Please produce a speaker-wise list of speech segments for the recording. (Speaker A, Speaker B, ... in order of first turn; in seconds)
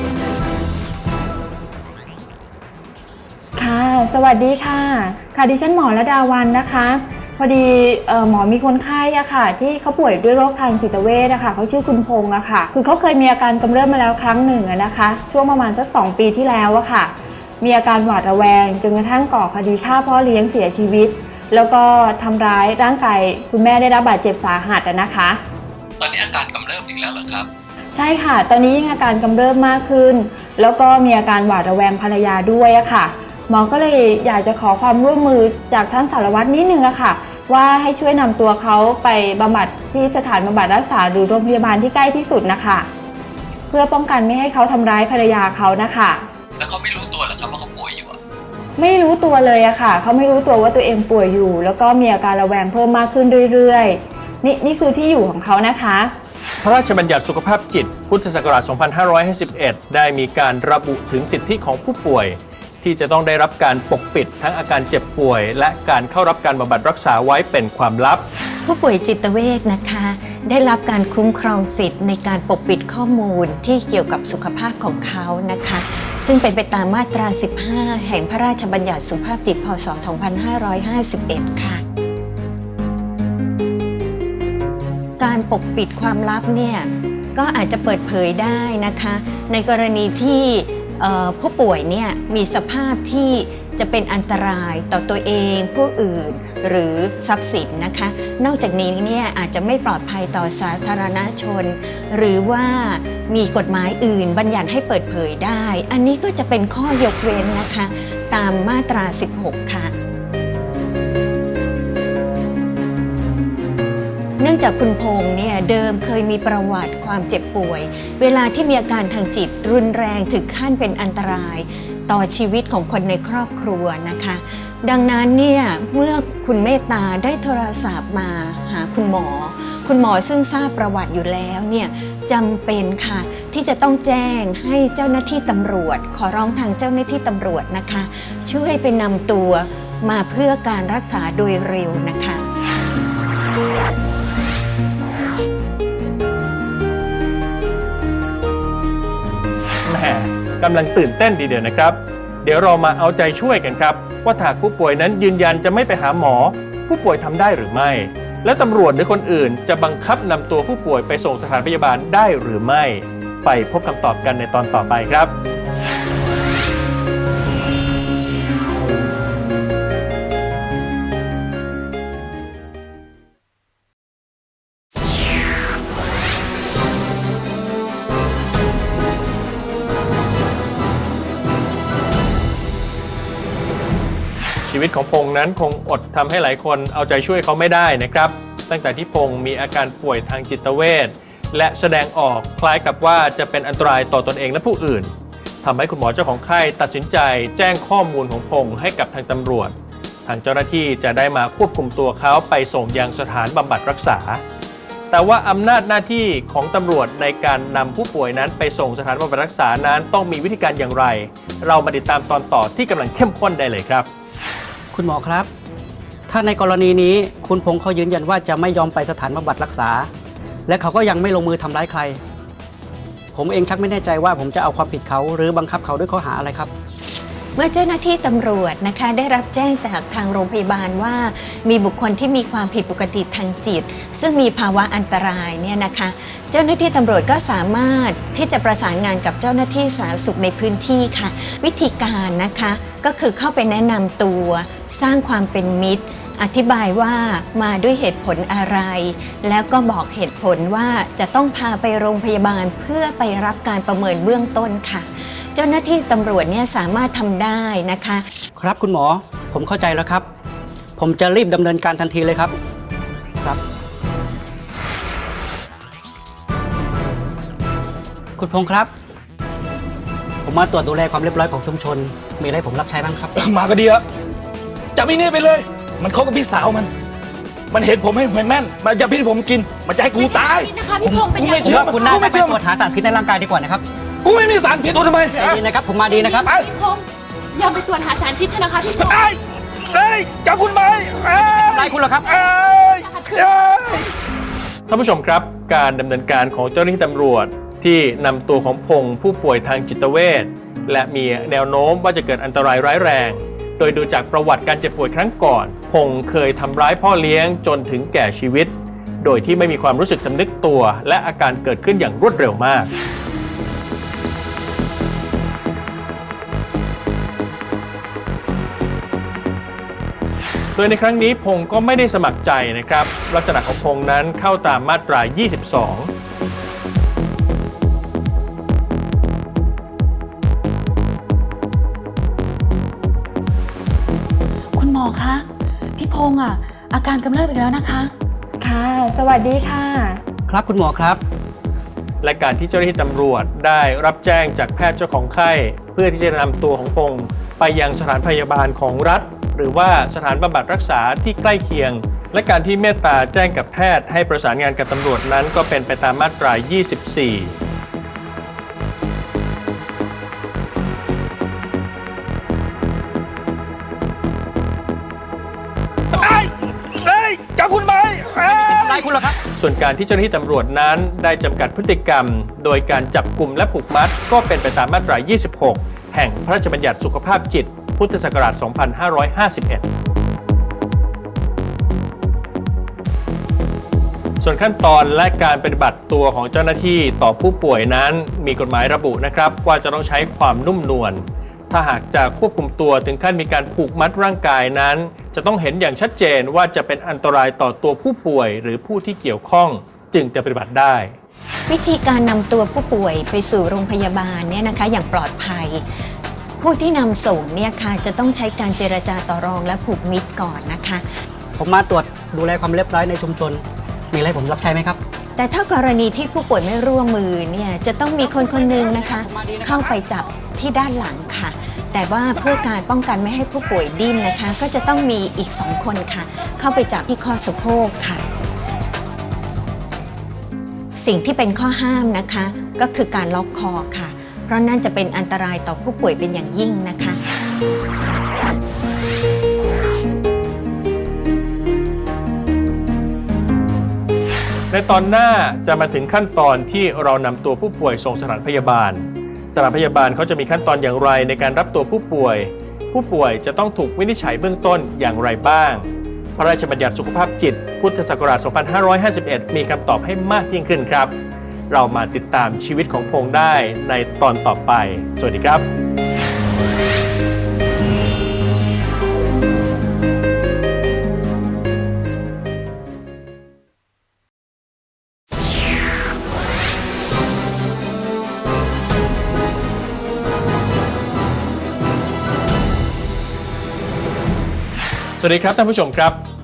Speaker A: 3.6-25.4, 27.9-42.9, 43.7-46.2, 48.8-56.1, 338.6-340.2
Speaker B: 26.0-27.5, 46.6-48.2
Speaker C: 56.6-68.2, 149.8-165.3, 184.7-195.1, 195.6-199.7, 200.3-204.4, 205.1-214.1, 294.9-312.9, 320.8-326.1, 342.2-357.5, 369.5-379.9, 384.4-401.1, 444.7-455.8, 456.4-461.1, 461.7-465.6, 485.2-486.2
Speaker D: 68.6-81.8, 85.2-109.9, 114.4-142.4, 227.6-258.2, 401.7-405.9, 406.6-411.1, 415.4-428.3, 431.0-437.2
Speaker E: 214.9-215.5, 216.3-220.1, 220.7-222.2, 223.3-226.7, 258.6-260.3, 261.0-262.5, 268.4-268.9, 270.4-273.3, 281.0-283.8, 285.3-286.5, 291.5-292.4, 340.5-341.2, 368.5-369.4, 411.6-415.0, 418.2-420.0
Speaker F: 273.3-274.0, 274.9-276.9, 277.7-282.6, 284.2-285.6, 288.9-294.1, 366.1-369.1
Speaker G: 280.1-282.2, 286.0-289.2, 293.0-293.5, 334.7-335.4, 336.0-338.1